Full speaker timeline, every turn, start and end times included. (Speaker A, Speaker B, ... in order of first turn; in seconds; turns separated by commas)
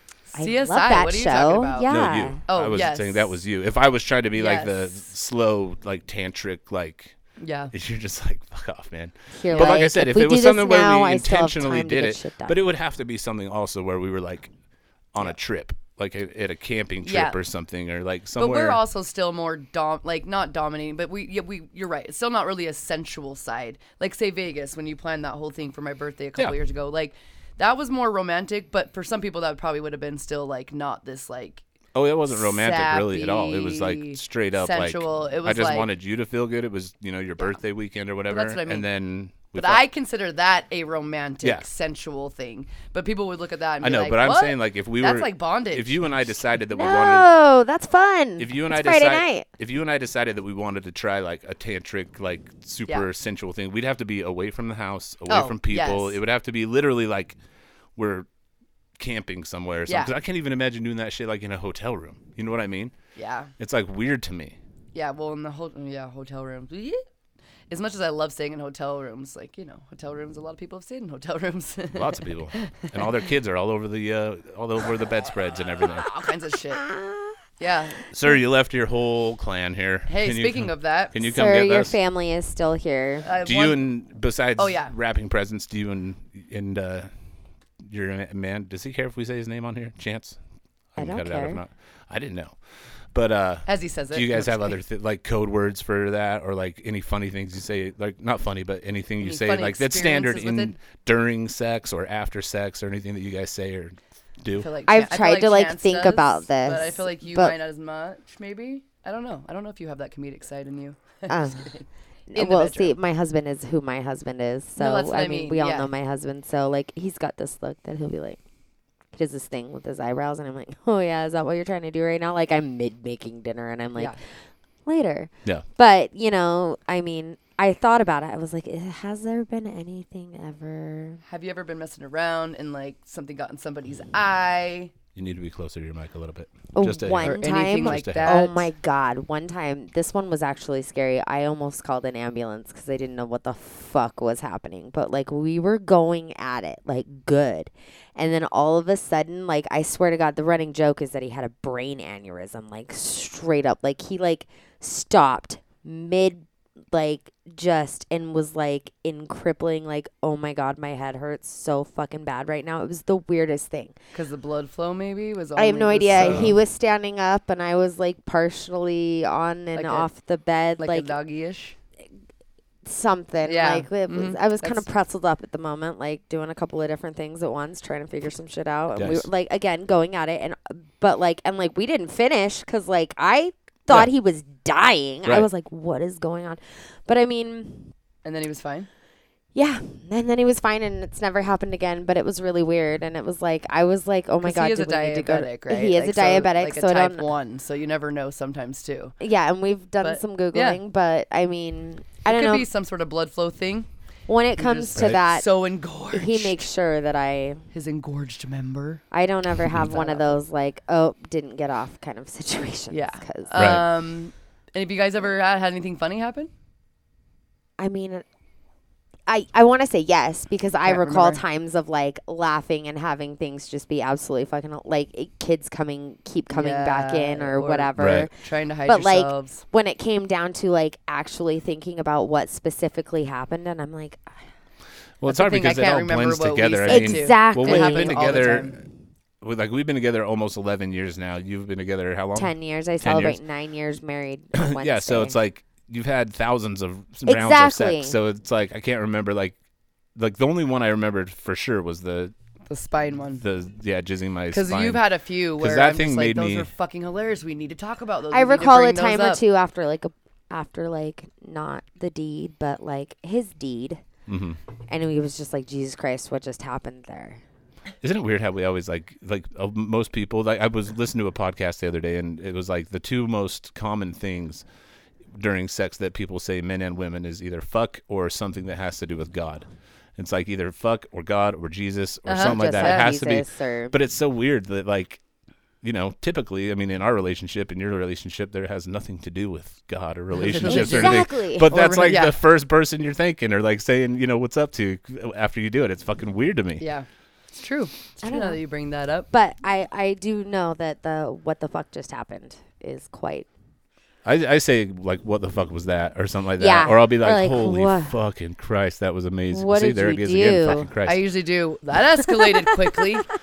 Speaker A: 0.3-1.9, Speaker B: 0.3-2.4, Speaker C: 1.9-7.1, Speaker A: 2.5-3.3, Speaker A: 4.3-5.0, Speaker A: 7.4-7.7, Speaker C: 7.7-14.5, Speaker B: 9.3-12.6, Speaker A: 9.5-9.9, Speaker C: 15.1-18.8, Speaker A: 17.0-17.4, Speaker A: 18.4-31.6, Speaker C: 31.9-39.8, Speaker A: 32.3-35.9, Speaker A: 38.3-38.9, Speaker A: 39.5-46.0, Speaker C: 43.8-47.3, Speaker B: 46.7-49.5, Speaker C: 48.4-57.4, Speaker A: 55.3-56.2, Speaker C: 58.0-58.3, Speaker C: 59.0-62.9, Speaker A: 59.9-60.1, Speaker A: 63.1-63.5, Speaker C: 63.6-64.5, Speaker A: 64.9-67.0, Speaker A: 67.7-72.9, Speaker C: 71.9-76.1, Speaker A: 75.6-76.8, Speaker B: 76.7-77.3, Speaker A: 77.6-78.0, Speaker C: 78.1-82.0, Speaker A: 80.1-81.2, Speaker B: 81.2-83.3, Speaker A: 83.2-83.8, Speaker C: 83.4-87.1, Speaker A: 84.6-84.9, Speaker C: 87.8-90.4, Speaker C: 90.9-92.5, Speaker B: 91.0-91.6, Speaker C: 93.1-104.7, Speaker A: 93.7-94.8, Speaker A: 99.2-100.8, Speaker A: 104.6-112.9, Speaker B: 104.9-107.5, Speaker B: 111.3-111.7, Speaker B: 112.3-118.4, Speaker A: 114.8-115.9, Speaker B: 119.1-124.2, Speaker B: 124.8-131.2, Speaker A: 131.2-134.9, Speaker C: 135.1-138.4, Speaker B: 136.7-163.9, Speaker A: 137.2-138.7, Speaker A: 164.1-166.6, Speaker B: 165.6-171.1, Speaker C: 166.1-166.5, Speaker A: 169.7-170.1, Speaker A: 170.8-171.8, Speaker B: 172.8-187.9, Speaker A: 173.4-174.8, Speaker C: 178.9-179.2, Speaker A: 188.2-188.9, Speaker B: 189.5-197.3, Speaker A: 194.4-199.1, Speaker B: 199.2-202.7, Speaker A: 200.0-200.8, Speaker A: 202.2-203.9, Speaker B: 204.3-205.4, Speaker A: 204.6-206.6, Speaker B: 206.1-207.6, Speaker A: 207.7-209.0, Speaker B: 209.1-213.8, Speaker A: 209.7-210.4, Speaker A: 212.9-216.5, Speaker C: 213.6-213.8, Speaker B: 217.8-218.2, Speaker B: 219.3-228.3, Speaker A: 220.8-221.4, Speaker A: 226.5-229.6, Speaker C: 227.9-228.3, Speaker B: 228.9-234.4, Speaker C: 235.2-238.8, Speaker A: 235.3-238.8, Speaker B: 236.9-238.6, Speaker C: 239.4-243.4, Speaker B: 242.3-245.4, Speaker C: 244.5-249.5, Speaker B: 247.2-248.2, Speaker C: 250.2-252.3, Speaker A: 252.7-253.4, Speaker C: 253.4-255.0, Speaker A: 254.5-259.4, Speaker C: 255.6-256.7, Speaker B: 258.3-264.0, Speaker C: 264.3-264.6, Speaker B: 264.9-267.4, Speaker C: 268.0-274.6, Speaker C: 275.4-285.2, Speaker A: 282.2-283.1, Speaker B: 282.4-283.9, Speaker C: 285.8-296.8, Speaker A: 290.3-292.4, Speaker B: 290.6-291.7, Speaker A: 296.8-299.3, Speaker B: 298.2-298.6, Speaker B: 299.3-303.5, Speaker C: 304.2-311.2, Speaker B: 306.6-308.1, Speaker B: 309.5-310.9, Speaker A: 311.0-313.3, Speaker B: 312.2-313.0